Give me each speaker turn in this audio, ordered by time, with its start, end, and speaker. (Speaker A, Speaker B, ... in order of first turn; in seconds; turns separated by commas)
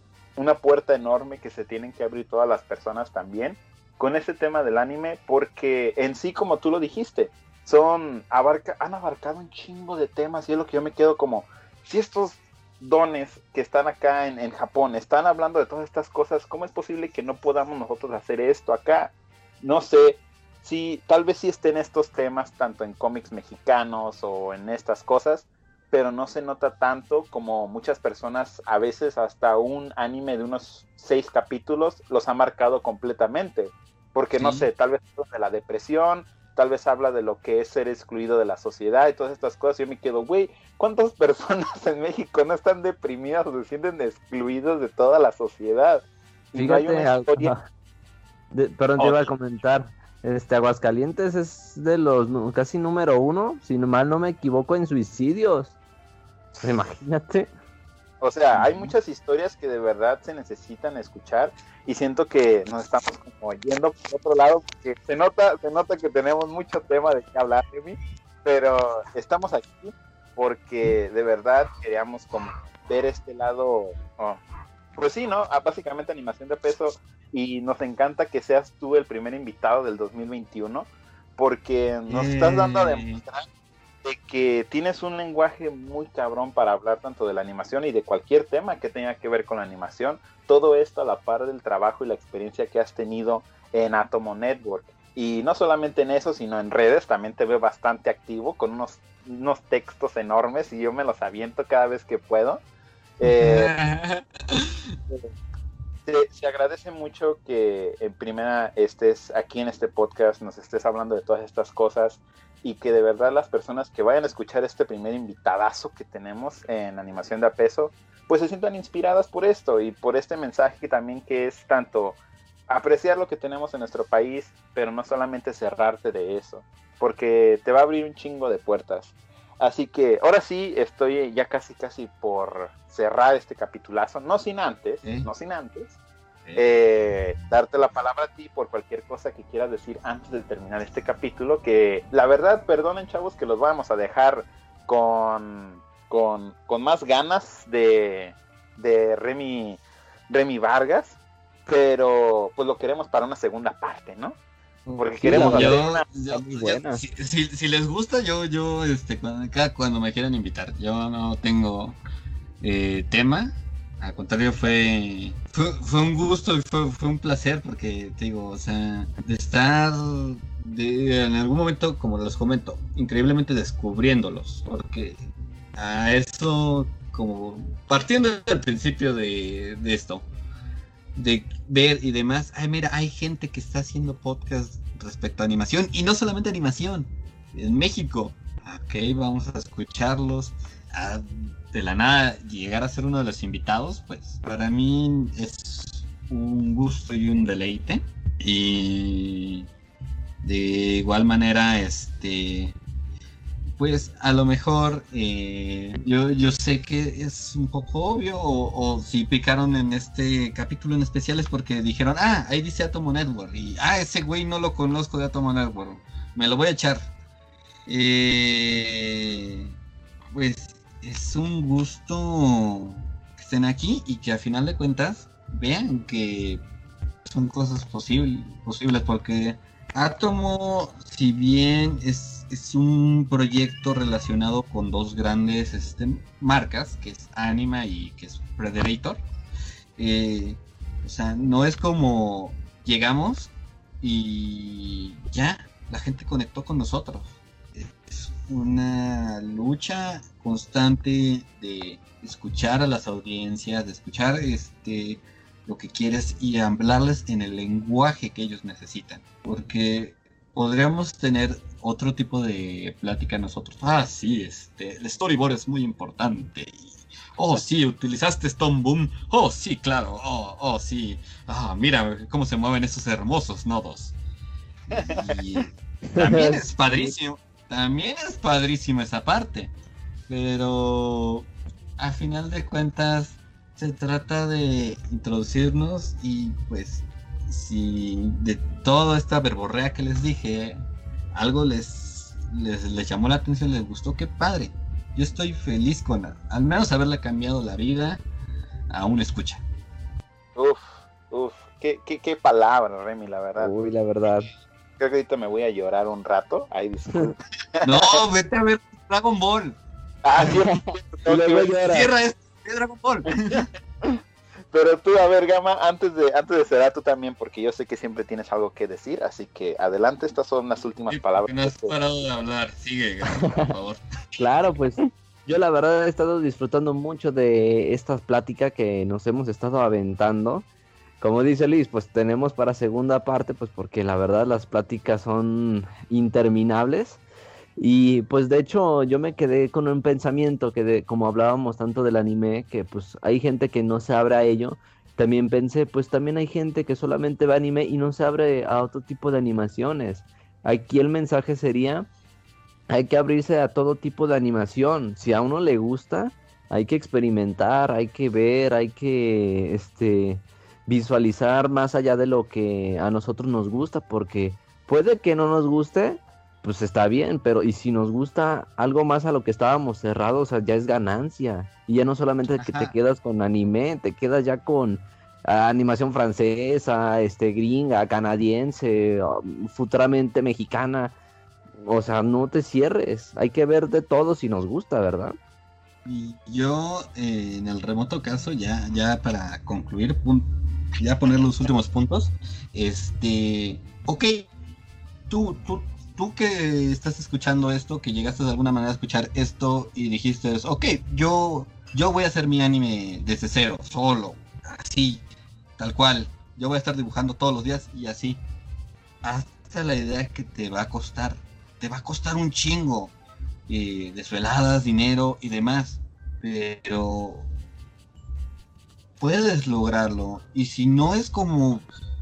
Speaker A: 0.4-47.5, Speaker B: 34.4-34.7, Speaker C: 46.5-47.6, Speaker C: 48.5-55.8, Speaker A: 49.0-49.3, Speaker C: 56.6-57.5, Speaker A: 58.2-74.4, Speaker B: 58.5-58.9, Speaker A: 75.0-83.5, Speaker B: 82.1-83.2, Speaker A: 84.0-102.6, Speaker A: 103.2-103.7, Speaker B: 103.3-105.0, Speaker A: 106.1-122.2, Speaker A: 122.7-135.9, Speaker B: 135.0-135.3, Speaker B: 136.4-136.8, Speaker A: 136.6-154.4, Speaker C: 154.9-157.0, Speaker A: 155.0-156.1, Speaker B: 155.2-162.0, Speaker B: 162.6-175.2, Speaker B: 175.8-180.3, Speaker B: 181.2-199.7, Speaker B: 200.4-202.8, Speaker B: 203.8-217.1, Speaker B: 217.9-219.7, Speaker B: 220.3-226.6, Speaker B: 227.2-239.2, Speaker B: 240.0-274.1, Speaker B: 274.9-279.7, Speaker A: 274.9-275.4, Speaker C: 276.1-277.1, Speaker B: 280.3-298.2, Speaker B: 298.9-299.6, Speaker A: 300.6-303.7, Speaker C: 303.6-304.5, Speaker A: 304.2-308.2, Speaker B: 307.8-309.8, Speaker A: 310.2-311.7, Speaker C: 310.4-312.1, Speaker B: 311.7-313.7, Speaker A: 313.5-314.2, Speaker A: 314.7-322.0, Speaker B: 321.1-324.6, Speaker C: 323.4-323.7, Speaker C: 324.4-330.7, Speaker C: 331.2-337.2, Speaker C: 337.8-352.1, Speaker C: 352.9-381.1, Speaker B: 372.6-372.9, Speaker C: 381.8-385.4, Speaker B: 386.1-394.5, Speaker B: 395.3-405.2, Speaker B: 405.8-408.4, Speaker B: 409.2-413.1, Speaker B: 413.7-417.5, Speaker B: 419.2-421.9